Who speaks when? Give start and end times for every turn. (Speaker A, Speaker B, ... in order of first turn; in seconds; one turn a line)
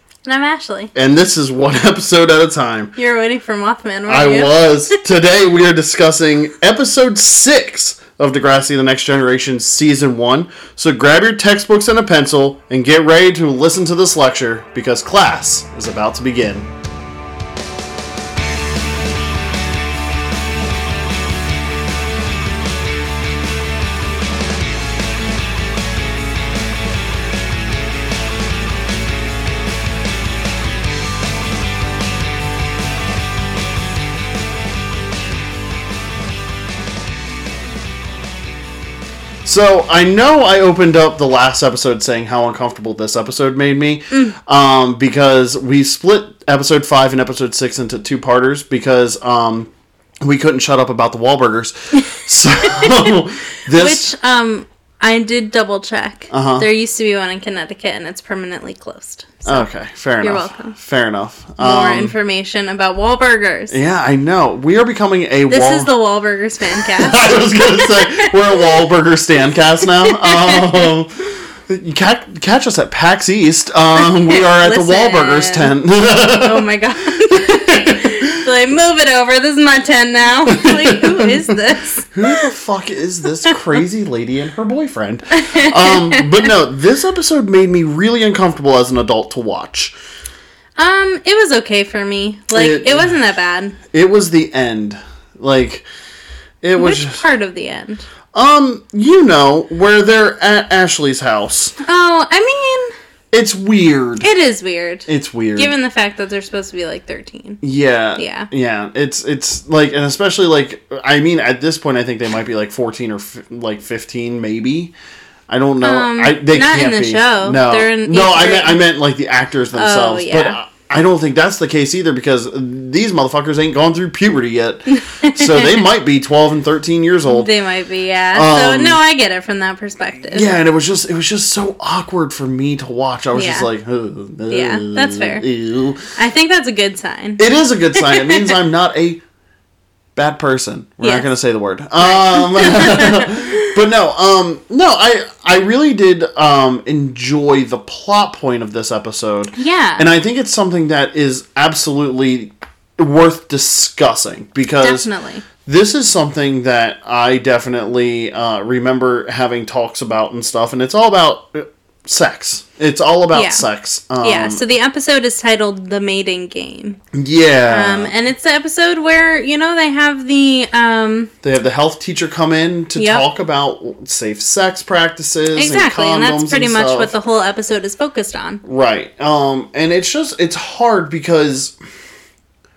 Speaker A: 0.2-0.9
Speaker B: 0.9-2.9
Speaker A: 3.0-5.0
Speaker B: 4.1-16.7
Speaker B: 39.4-49.7
Speaker B: 50.2-54.1
Speaker A: 52.6-59.7
Speaker B: 56.3-56.7
Speaker B: 59.5-62.1
Speaker A: 60.2-60.8
Speaker A: 61.6-63.8
Speaker B: 63.7-65.9
Speaker A: 65.5-68.8
Speaker B: 66.7-76.7
Speaker A: 69.8-70.9
Speaker A: 74.0-82.5
Speaker B: 77.3-78.5
Speaker B: 80.5-81.6
Speaker B: 82.1-89.9
Speaker A: 85.3-86.5
Speaker A: 90.8-93.8
Speaker B: 92.5-93.2
Speaker B: 93.9-95.8
Speaker B: 96.6-97.2
Speaker A: 96.8-98.0
Speaker B: 98.3-101.8
Speaker A: 101.8-102.9
Speaker B: 103.3-104.3
Speaker A: 104.2-107.6
Speaker B: 105.1-105.7
Speaker B: 107.6-114.9
Speaker A: 108.2-108.5
Speaker B: 115.5-127.5
Speaker A: 115.8-118.8
Speaker A: 119.8-120.6
Speaker A: 125.0-125.8
Speaker A: 127.3-130.5
Speaker B: 128.3-129.0
Speaker B: 130.3-136.1
Speaker A: 133.3-133.7
Speaker A: 134.5-135.4
Speaker A: 136.2-137.4
Speaker B: 137.4-139.2
Speaker A: 137.9-138.6
Speaker B: 140.2-155.1
Speaker A: 142.1-143.6
Speaker A: 149.6-150.1
Speaker A: 154.8-155.4
Speaker B: 155.6-164.6
Speaker A: 163.3-163.7
Speaker A: 164.2-167.0
Speaker B: 167.1-168.1
Speaker A: 167.7-171.3
Speaker B: 171.4-177.1
Speaker A: 173.0-173.2
Speaker A: 175.6-178.6
Speaker B: 178.6-181.8